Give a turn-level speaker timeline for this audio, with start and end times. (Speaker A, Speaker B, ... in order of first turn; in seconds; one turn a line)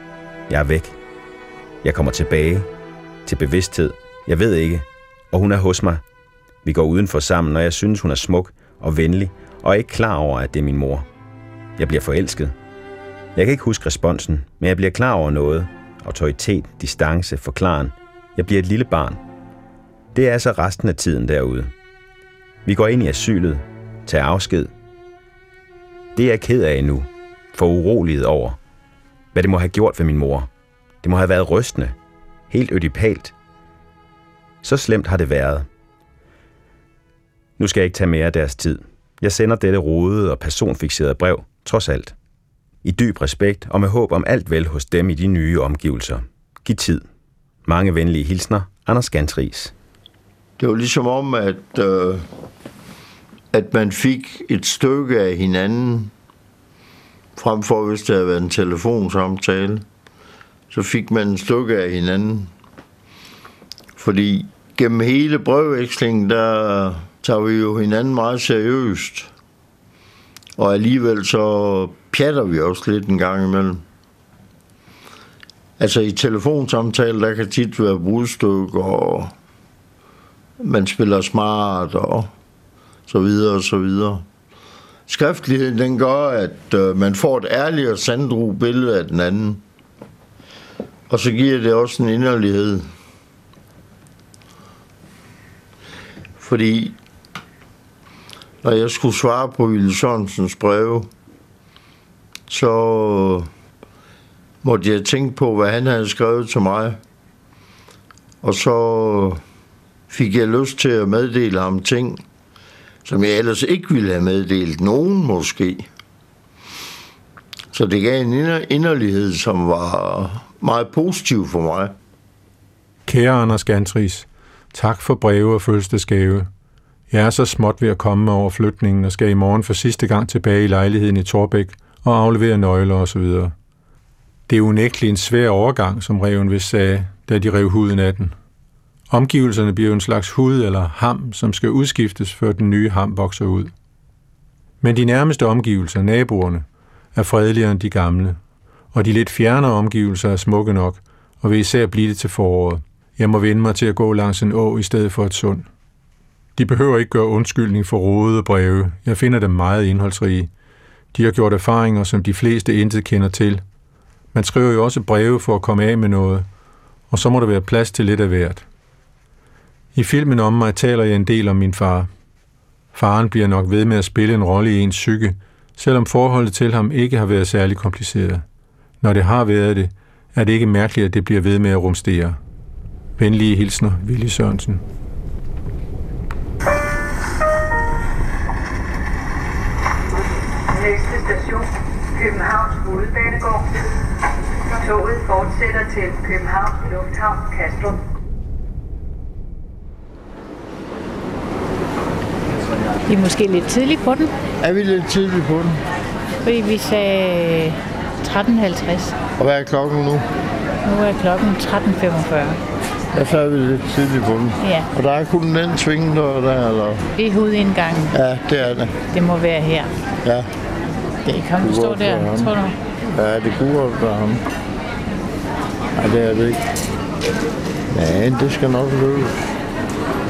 Speaker A: 0.5-1.0
Speaker A: 1.8-2.7
Speaker A: 3.3-6.0
Speaker A: 6.6-11.1
Speaker A: 11.8-12.6
Speaker A: 13.3-19.2
Speaker A: 20.1-21.7
Speaker A: 22.6-24.7
Speaker A: 26.2-28.6
Speaker A: 29.3-30.5
Speaker A: 31.0-31.9
Speaker A: 32.5-33.3
Speaker A: 34.6-35.7
Speaker A: 37.6-42.1
Speaker A: 42.8-47.0
Speaker A: 47.7-49.7
Speaker B: 50.6-52.3
Speaker B: 53.5-56.1
Speaker B: 57.4-59.9
Speaker B: 60.7-62.5
Speaker B: 64.0-69.3
Speaker B: 70.6-73.8
Speaker B: 75.8-79.3
Speaker B: 80.6-82.3
Speaker B: 83.1-84.2
Speaker B: 85.1-89.6
Speaker B: 91.1-92.9
Speaker B: 96.4-97.0
Speaker B: 98.6-101.1
Speaker B: 102.5-103.5
Speaker B: 104.6-107.0
Speaker B: 108.4-109.4
Speaker B: 110.1-112.2
Speaker B: 113.0-115.9
Speaker B: 117.7-122.0
Speaker C: 123.1-126.5
Speaker C: 127.1-133.5
Speaker C: 134.5-138.3
Speaker C: 139.1-143.7
Speaker C: 144.8-148.4
Speaker C: 148.9-155.7
Speaker C: 156.6-160.5
Speaker C: 161.1-163.6
Speaker C: 164.3-166.5
Speaker C: 167.1-168.7
Speaker C: 169.9-172.1
Speaker C: 172.9-178.4
Speaker C: 179.0-182.4
Speaker C: 183.2-184.8
Speaker D: 190.7-193.9
Speaker D: 194.6-198.0
Speaker E: 203.1-204.3
Speaker B: 204.6-205.8
Speaker E: 206.4-209.2
Speaker B: 209.4-210.3
Speaker E: 210.8-212.6
Speaker B: 213.1-217.1
Speaker E: 214.6-214.9
Speaker E: 217.2-218.2
Speaker B: 218.1-219.0
Speaker E: 219.1-219.9
Speaker B: 220.2-220.5
Speaker E: 221.3-222.8
Speaker B: 221.5-222.6
Speaker B: 223.1-224.4
Speaker B: 226.0-226.6
Speaker B: 227.9-229.4